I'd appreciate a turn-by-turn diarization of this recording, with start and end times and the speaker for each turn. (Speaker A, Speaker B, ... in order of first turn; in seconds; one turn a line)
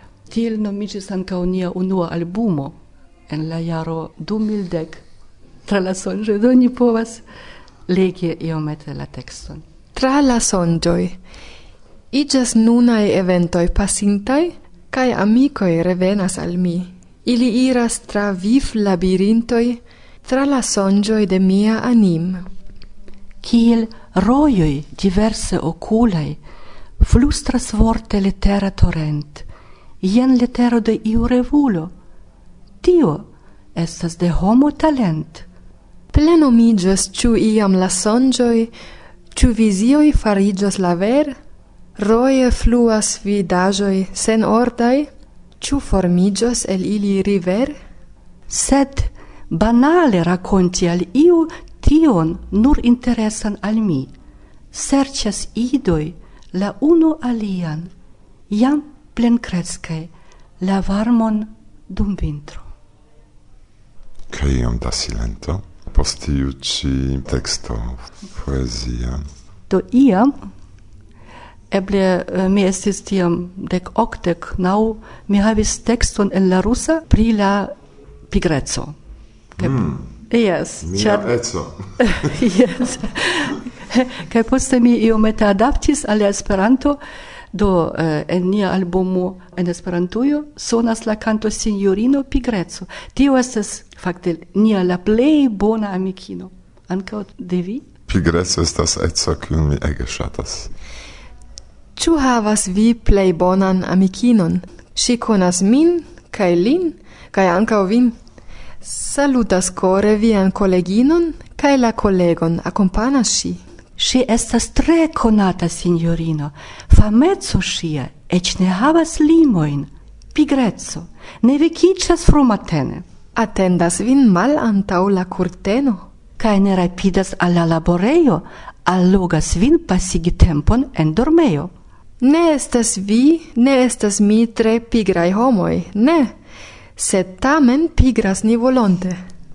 Speaker A: 0.3-2.8
Speaker A: 3.3-5.0
Speaker A: 5.7-7.2
Speaker A: 7.9-9.6
Speaker B: 9.9-11.2
Speaker B: 12.1-22.5
Speaker A: 23.4-26.4
Speaker A: 27.0-29.5
Speaker A: 30.0-31.9
Speaker A: 32.8-35.5
Speaker B: 36.1-38.7
Speaker B: 39.3-41.4
Speaker B: 42.0-45.1
Speaker B: 45.6-47.8
Speaker A: 48.5-54.1
Speaker A: 54.7-57.9
Speaker A: 58.5-62.7
Speaker C: 64.3-69.2
Speaker A: 69.7-70.4
Speaker A: 71.7-77.7
Speaker A: 78.3-78.9
Speaker A: 79.6-81.3
Speaker C: 79.6-80.1
Speaker C: 80.8-81.8
Speaker A: 82.0-87.0
Speaker A: 87.5-97.8
Speaker C: 98.1-100.7
Speaker B: 102.0-108.2
Speaker B: 108.8-113.6
Speaker A: 114.0-123.0
Speaker B: 123.3-126.1
Speaker A: 126.4-131.7
Speaker B: 132.2-136.3
Speaker B: 137.0-139.2